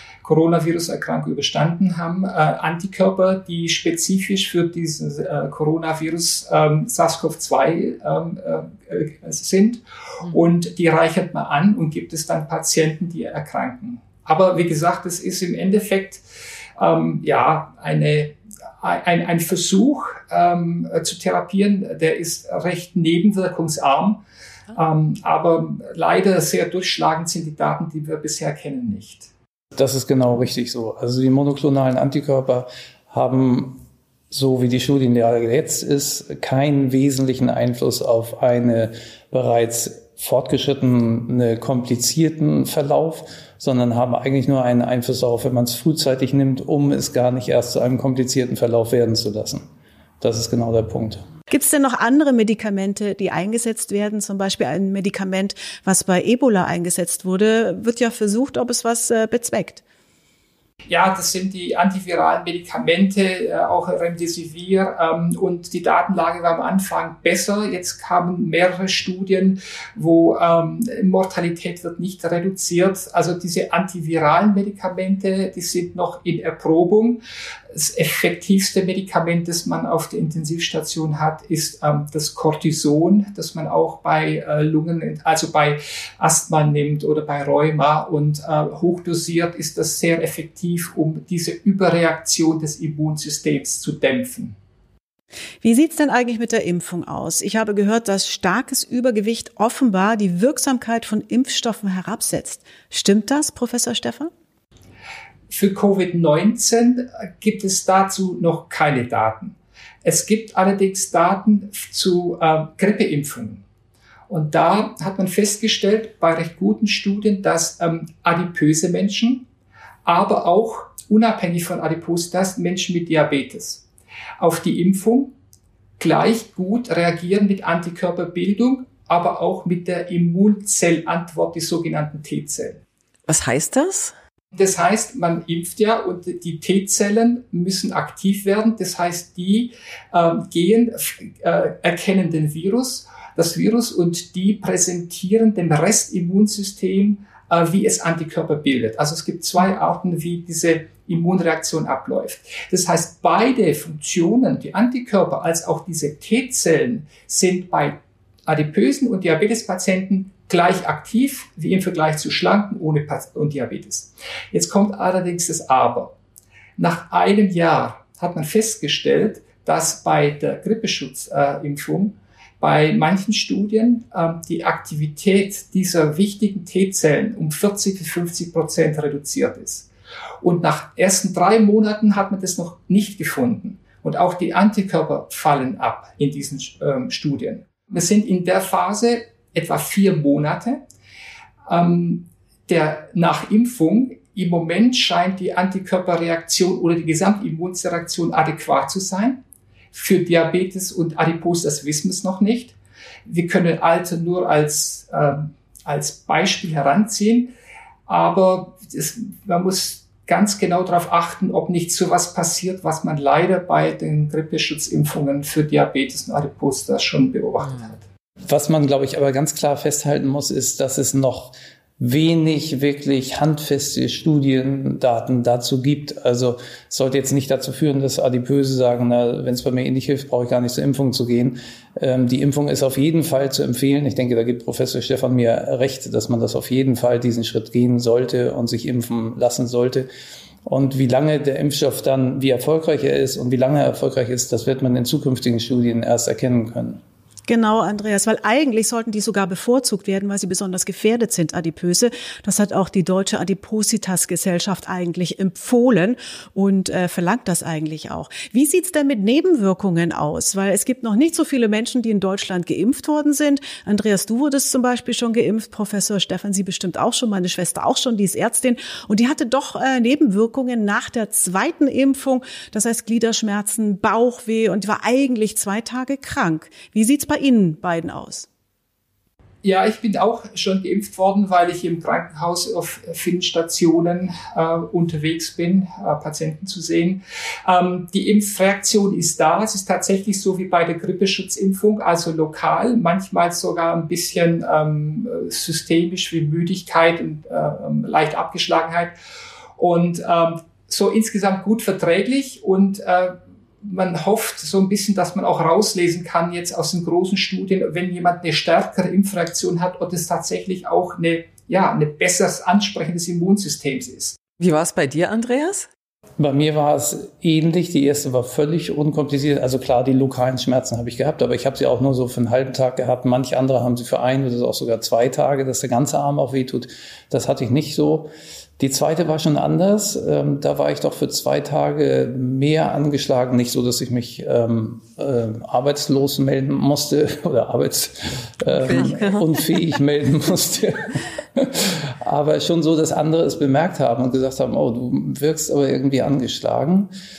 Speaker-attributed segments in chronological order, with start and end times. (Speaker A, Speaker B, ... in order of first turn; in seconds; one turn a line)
Speaker A: 0.2-16.2
Speaker A: 16.8-24.2
Speaker A: 24.7-29.3
Speaker B: 29.8-49.6
Speaker B: 50.2-51.2
Speaker C: 51.5-59.8
Speaker A: 60.9-77.2
Speaker A: 77.7-94.5
Speaker C: 95.6-104.3
Speaker A: 105.5-113.6
Speaker A: 114.3-119.5
Speaker A: 120.0-123.8
Speaker A: 124.4-125.3
Speaker A: 126.0-132.8
Speaker D: 133.3-134.1
Speaker A: 134.5-166.1
Speaker A: 166.8-179.9
Speaker A: 180.4-190.8
Speaker A: 191.7-199.4
Speaker A: 199.9-207.5
Speaker A: 208.1-218.0
Speaker B: 218.4-240.1
Speaker B: 240.6-247.0
Speaker C: 247.5-278.5
Speaker A: 279.6-299.1
Speaker A: 299.8-314.4
Speaker D: 314.6-315.9
Speaker B: 316.4-347.1
Speaker D: 338.8-339.8